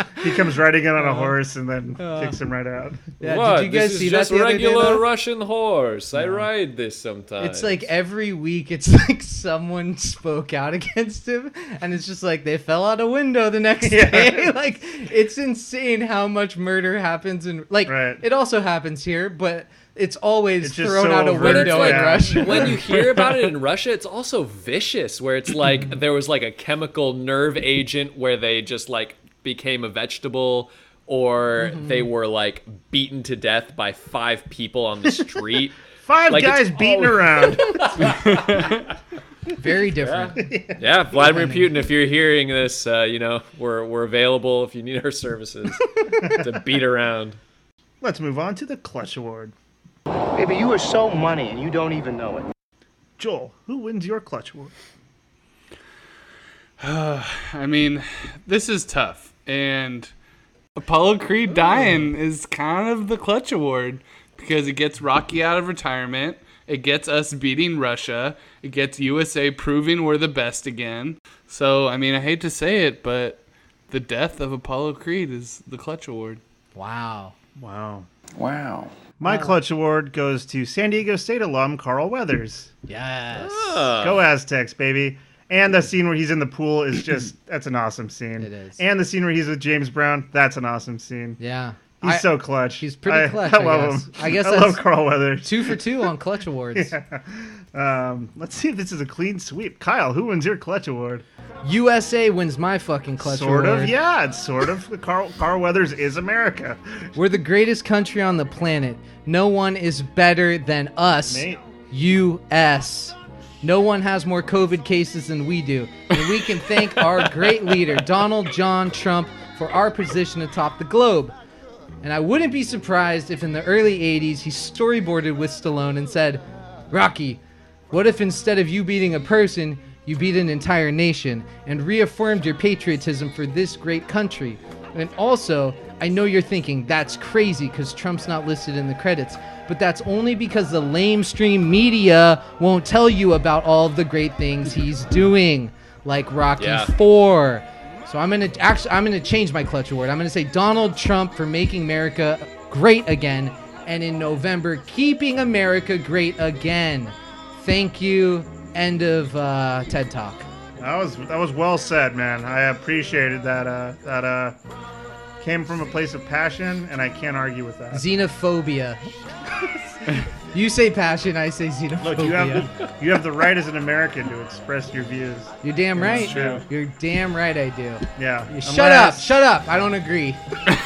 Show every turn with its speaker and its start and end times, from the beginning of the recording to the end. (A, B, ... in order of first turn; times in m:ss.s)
0:00.2-0:03.1 A
0:01.0-0:01.3 B
0:02.0-0:02.4 B
0:03.2-0:05.0 B
0:03.2-0:07.9 C
0:07.4-0:22.8 B
0:13.8-0:14.5 A
0:17.9-0:18.2 A
0:20.6-0:23.0 A
0:21.4-0:35.8 C
0:31.6-0:32.1 B
0:36.0-0:38.1 A
0:36.3-0:38.6 C
0:38.2-0:38.7 D
0:39.6-0:40.4 B
0:40.0-0:45.9 C
0:40.4-0:40.8 A
0:41.3-0:41.6 B
0:46.2-0:46.4 A
0:46.4-0:47.4 C
0:48.0-0:49.5 A
0:50.3-0:52.4 E
0:53.2-0:54.7 A
0:56.8-1:00.1 D
1:00.8-1:16.4 D
1:16.7-1:17.4 B
1:17.6-1:18.1 A
1:19.2-1:22.7 A
1:19.3-1:19.5 B
1:22.9-1:23.8 B
1:23.4-1:24.2 C
1:24.0-1:31.4 A
1:28.4-1:28.8 B
1:31.4-1:34.8 B
1:32.0-1:35.8 A
1:35.4-1:36.9 B
1:36.7-1:41.2 A
1:41.6-1:44.0 B
1:43.2-1:46.8 A
1:47.2-2:01.3 B
1:51.3-1:51.6 A
2:02.0-2:07.4 B
2:07.9-2:40.5 B
2:26.6-2:26.9 C
2:40.8-2:44.6 A
2:45.4-2:48.0 A
2:47.9-2:49.7 B
2:50.5-2:52.7 B
2:52.0-2:55.5 A
2:55.6-3:00.4 B
2:56.1-2:56.6 D
2:56.2-2:56.6 A
2:58.2-2:59.3 A